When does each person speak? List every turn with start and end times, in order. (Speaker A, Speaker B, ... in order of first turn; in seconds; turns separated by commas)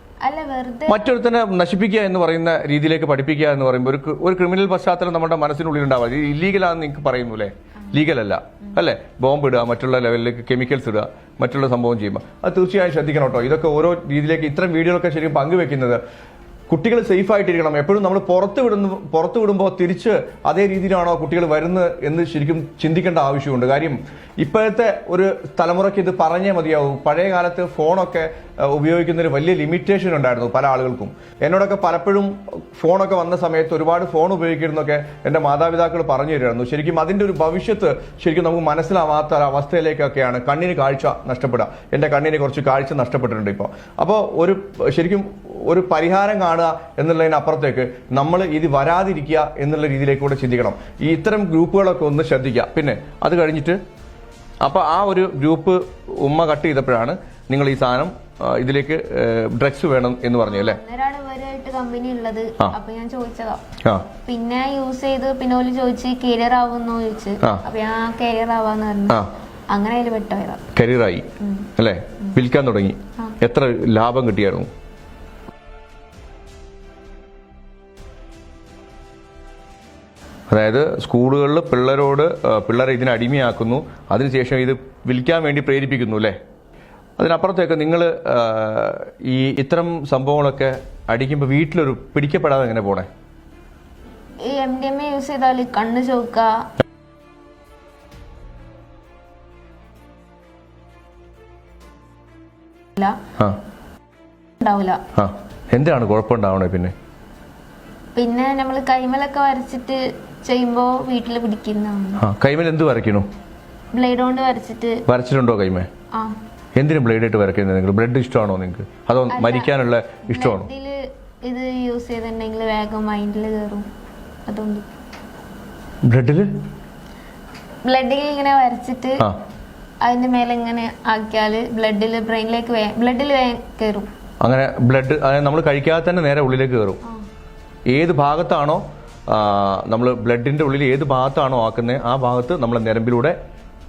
Speaker A: 0.2-1.1, Speaker B: 0.9-16.0, Speaker B: 16.7-53.8, Speaker B: 54.6-60.8, Speaker A: 60.4-63.7, Speaker B: 63.8-64.1, Speaker A: 64.3-70.7, Speaker B: 70.7-74.7, Speaker A: 71.4-71.7, Speaker B: 80.5-86.4, Speaker B: 87.2-93.1, Speaker A: 94.4-96.7, Speaker A: 104.6-105.0, Speaker B: 105.2-106.9, Speaker A: 108.2-112.2, Speaker B: 112.2-113.3, Speaker A: 113.9-115.0, Speaker B: 115.1-115.9, Speaker A: 116.1-116.4, Speaker B: 116.8-120.7, Speaker A: 119.3-119.7, Speaker A: 120.3-123.9, Speaker A: 124.5-124.9, Speaker B: 126.0-126.5, Speaker A: 127.8-129.3, Speaker A: 130.0-134.1, Speaker B: 134.4-137.0, Speaker B: 137.9-143.4